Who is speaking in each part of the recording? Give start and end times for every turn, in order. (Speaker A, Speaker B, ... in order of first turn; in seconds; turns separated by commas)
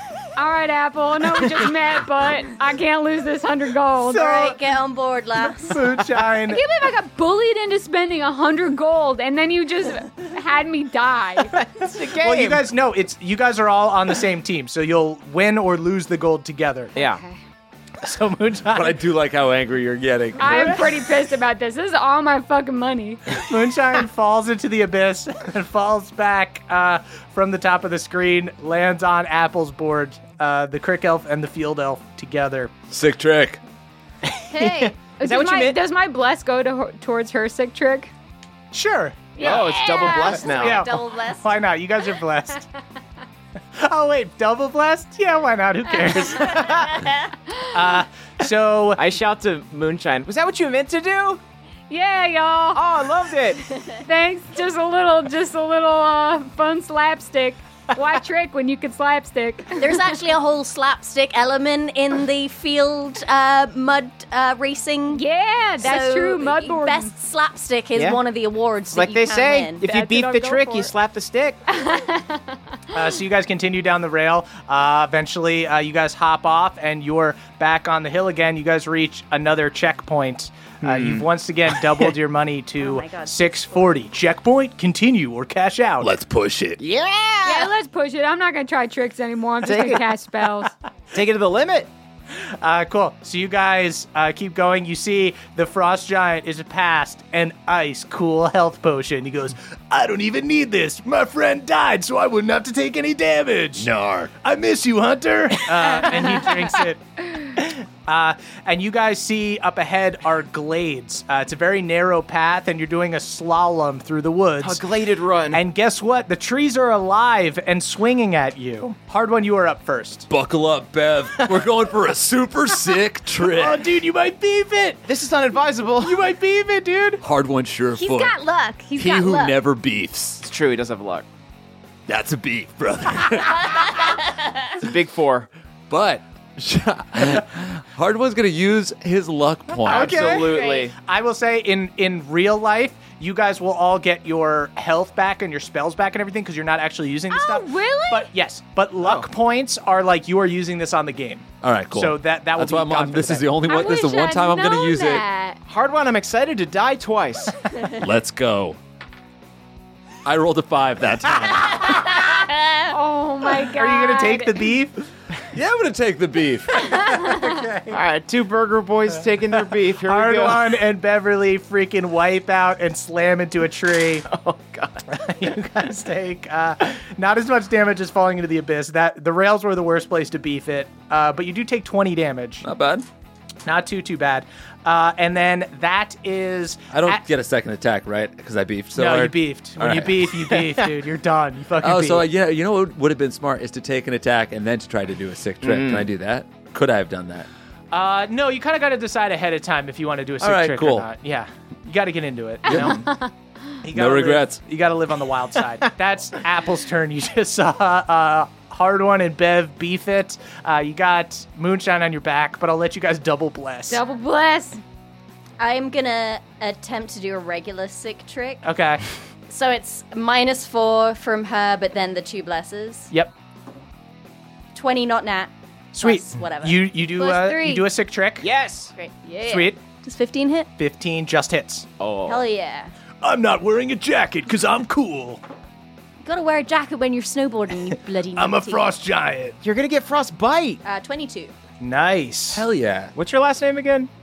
Speaker A: 0.3-4.5, Speaker B: 4.1-4.6, Speaker C: 4.1-5.9, Speaker B: 5.5-6.6, Speaker A: 6.5-11.5, Speaker D: 11.5-12.6, Speaker B: 12.1-16.9, Speaker D: 16.9-17.2, Speaker A: 16.9-17.4, Speaker B: 18.0-19.0, Speaker E: 18.7-20.8, Speaker A: 20.4-23.3, Speaker B: 20.4-20.8, Speaker B: 23.4-32.7, Speaker E: 32.9-33.6, Speaker A: 34.5-38.1, Speaker D: 34.5-35.8, Speaker B: 38.7-39.4, Speaker A: 39.4-40.4, Speaker D: 39.4-40.8, Speaker C: 39.5-41.5, Speaker B: 40.4-42.7, Speaker B: 43.8-49.0, Speaker C: 46.9-47.2, Speaker D: 49.0-51.4, Speaker A: 51.9-52.8, Speaker D: 52.7-53.6, Speaker A: 54.0-60.1, Speaker C: 59.8-65.2, Speaker A: 65.1-67.1, Speaker C: 65.8-69.8, Speaker D: 67.9-68.2, Speaker D: 68.9-71.6, Speaker A: 69.8-70.9, Speaker A: 71.7-72.5, Speaker B: 72.9-86.1, Speaker D: 80.8-81.2, Speaker C: 82.8-83.5, Speaker E: 86.0-86.8, Speaker D: 86.8-87.7, Speaker A: 87.4-90.7, Speaker D: 89.6-90.0, Speaker D: 91.1-91.9, Speaker B: 92.6-103.9, Speaker E: 103.8-104.3, Speaker B: 104.4-107.0, Speaker B: 107.5-114.8, Speaker D: 114.6-115.6, Speaker B: 115.5-120.3, Speaker E: 120.3-123.8, Speaker B: 123.4-125.0, Speaker D: 125.0-126.2, Speaker B: 126.0-127.2, Speaker E: 127.2-128.4, Speaker A: 127.9-129.6, Speaker E: 128.9-130.4, Speaker D: 130.4-131.2, Speaker E: 132.1-134.2, Speaker D: 134.8-135.5, Speaker E: 135.9-140.4, Speaker D: 139.8-140.9, Speaker B: 139.8-153.6, Speaker C: 140.4-140.9, Speaker A: 147.3-148.3, Speaker E: 151.6-155.2, Speaker A: 153.6-155.6, Speaker D: 155.7-157.6, Speaker E: 157.9-158.8, Speaker E: 160.2-162.1, Speaker C: 162.3-162.8, Speaker A: 162.9-164.7, Speaker B: 163.7-165.0, Speaker E: 165.5-166.9, Speaker A: 166.8-167.5, Speaker B: 167.2-168.0, Speaker D: 167.9-170.7, Speaker B: 170.0-174.3, Speaker D: 174.3-175.0, Speaker B: 175.1-182.6, Speaker E: 182.6-183.1, Speaker B: 183.7-187.2, Speaker E: 186.9-190.3, Speaker B: 188.9-192.2, Speaker E: 191.8-197.5, Speaker D: 195.6-196.1, Speaker B: 197.9-203.0, Speaker E: 200.4-201.1, Speaker E: 202.7-202.9, Speaker A: 202.8-203.3, Speaker B: 203.8-214.0, Speaker E: 203.9-204.6, Speaker A: 213.9-214.8, Speaker C: 215.6-218.6, Speaker B: 218.6-219.0, Speaker C: 219.5-223.1, Speaker C: 224.7-226.8, Speaker B: 225.9-228.5, Speaker A: 227.2-227.8, Speaker D: 228.4-228.9, Speaker C: 228.9-230.7, Speaker A: 229.2-229.7, Speaker B: 229.4-229.8, Speaker B: 230.8-231.9, Speaker D: 232.0-232.4, Speaker C: 232.2-232.9, Speaker B: 233.2-235.4, Speaker C: 236.2-238.9, Speaker B: 238.3-239.5, Speaker D: 239.6-240.8, Speaker C: 240.8-241.5, Speaker B: 241.8-242.7, Speaker E: 242.5-243.1, Speaker D: 243.2-244.1